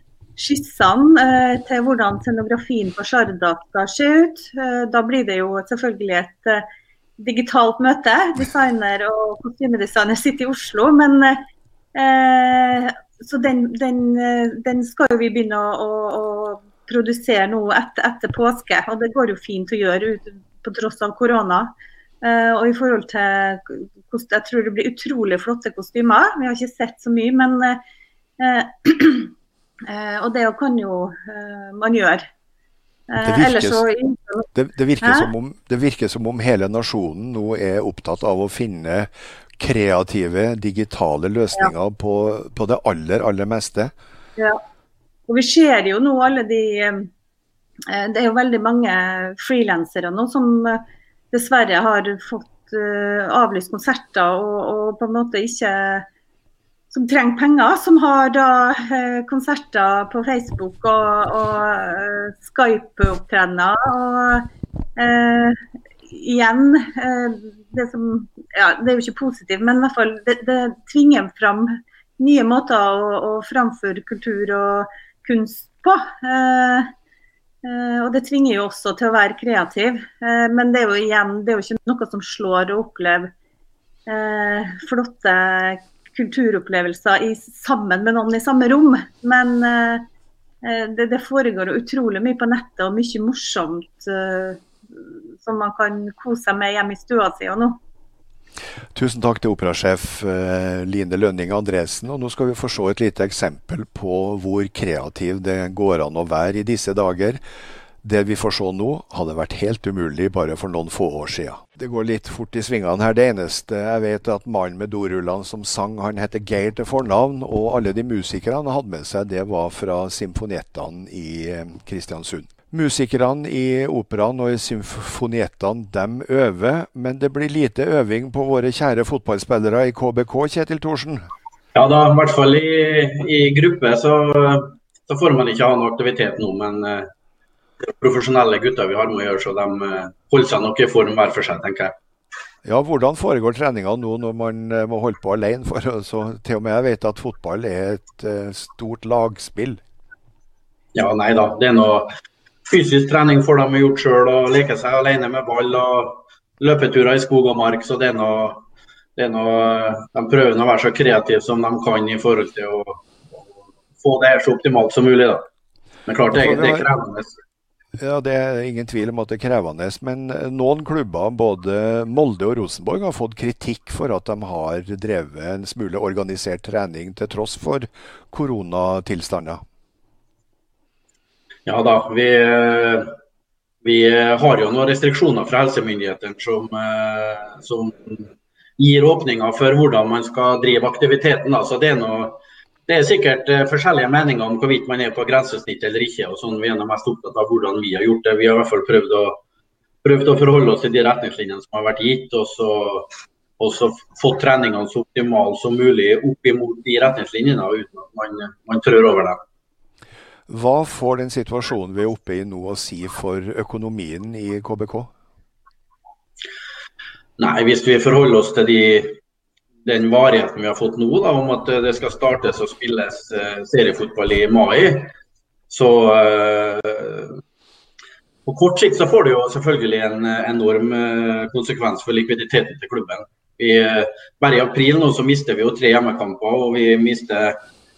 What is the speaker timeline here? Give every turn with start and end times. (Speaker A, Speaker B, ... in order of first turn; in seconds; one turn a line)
Speaker A: 0.4-6.7
Speaker A: 7.2-11.4
Speaker A: 11.9-27.8
Speaker A: 28.4-29.3
Speaker A: 29.9-32.3
Speaker A: 33.1-34.5
Speaker B: 33.2-33.8
Speaker B: 34.5-43.9
Speaker A: 35.0-35.3
Speaker A: 45.3-47.1
Speaker A: 47.9-56.1
Speaker A: 56.9-65.5
Speaker A: 66.1-76.9
Speaker A: 77.6-83.3
Speaker A: 84.0-90.1
Speaker A: 90.6-94.6
Speaker A: 95.4-97.8
Speaker B: 98.9-107.4
Speaker B: 108.0-131.2
Speaker C: 131.7-137.1
Speaker C: 137.9-141.9
Speaker B: 142.6-149.8
Speaker C: 150.9-152.1
Speaker C: 152.7-158.6
Speaker C: 159.2-163.0
Speaker C: 164.0-165.4
Speaker C: 166.1-167.3
Speaker B: 166.3-166.9
Speaker B: 168.0-179.6
Speaker C: 181.7-183.1
Speaker C: 183.8-188.3
Speaker C: 188.8-199.4
Speaker C: 200.0-209.4
Speaker B: 210.5-215.1
Speaker C: 217.4-219.2
Speaker C: 219.8-225.1
Speaker C: 225.7-227.4
Speaker C: 228.4-237.6